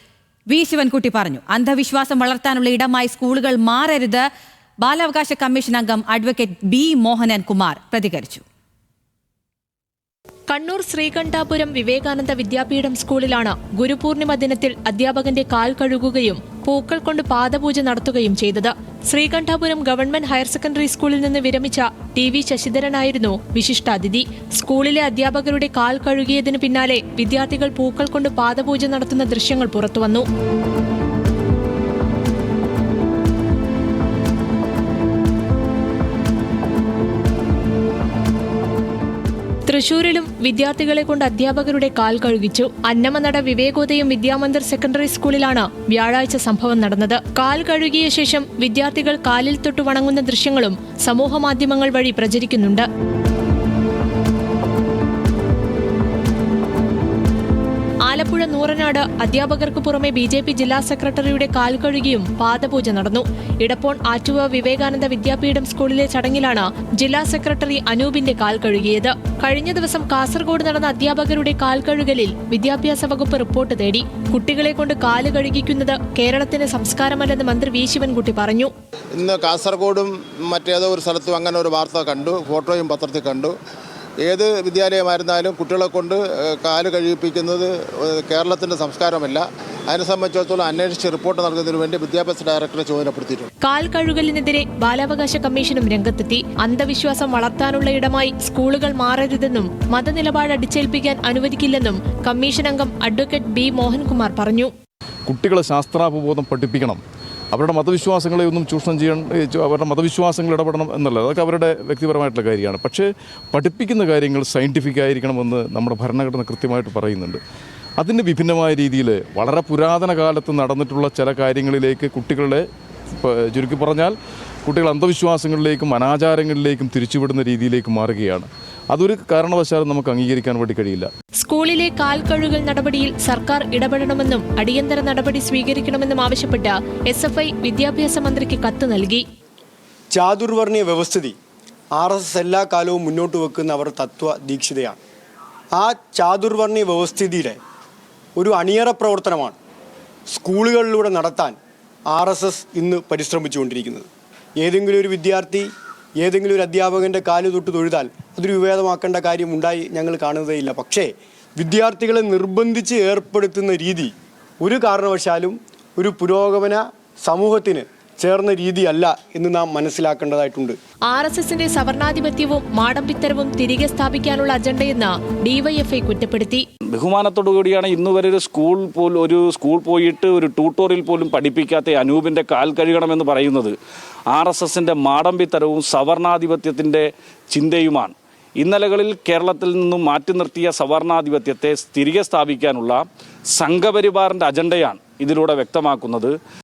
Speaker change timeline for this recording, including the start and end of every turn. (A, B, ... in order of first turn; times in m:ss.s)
0:00.5-0:04.3 A
0:04.8-0:08.4 A
0:10.5-0:30.2 B
0:39.7-0:52.9 B
0:58.1-1:18.7 B
1:19.2-1:23.5 C
1:24.2-1:33.4 C
1:33.6-1:44.7 B
1:45.3-1:47.0 D
1:47.5-1:57.4 D
1:58.0-2:02.6 D
2:03.2-2:11.1 D
2:11.4-2:19.2 B
2:20.1-2:21.4 E
2:21.9-2:25.0 E
2:25.7-2:27.6 E
2:28.4-2:29.6 E
2:30.3-2:31.6 E
2:32.1-2:34.1 E
2:34.6-2:35.7 E
2:36.2-2:50.8 E
2:51.1-2:56.6 B
2:56.9-3:03.7 F
3:04.3-3:16.3 F